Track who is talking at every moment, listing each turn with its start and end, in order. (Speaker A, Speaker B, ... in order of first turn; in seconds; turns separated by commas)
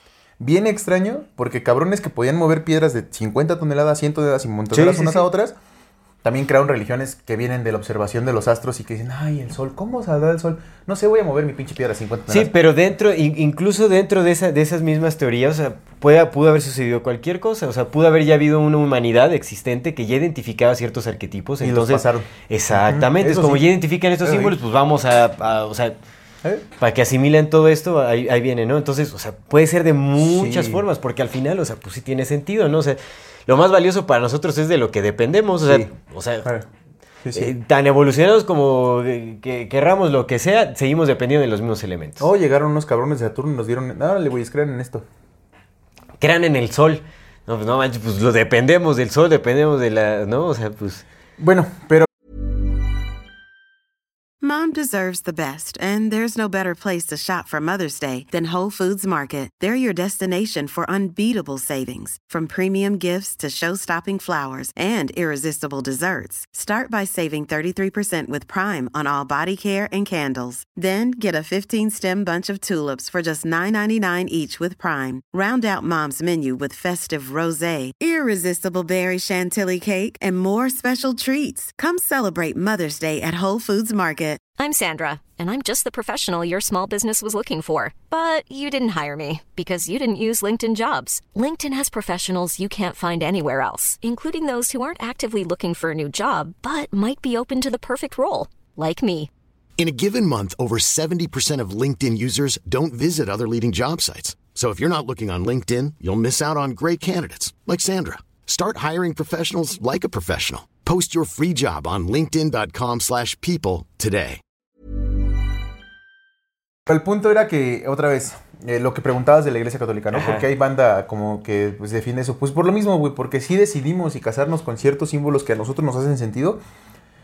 Speaker A: 0.4-5.5, Speaker B: 4.7-5.2, Speaker A: 6.2-12.5, Speaker B: 12.3-25.9, Speaker A: 21.6-23.6, Speaker A: 24.2-24.5, Speaker B: 26.8-36.5, Speaker A: 30.2-30.8, Speaker A: 35.6-35.9, Speaker A: 37.2-37.5, Speaker B: 37.3-42.3, Speaker A: 42.2-45.0, Speaker B: 46.2-51.0, Speaker A: 51.4-52.1, Speaker C: 54.4-84.4, Speaker D: 84.6-99.3, Speaker E: 99.8-114.4, Speaker A: 116.8-126.6, Speaker B: 120.1-120.5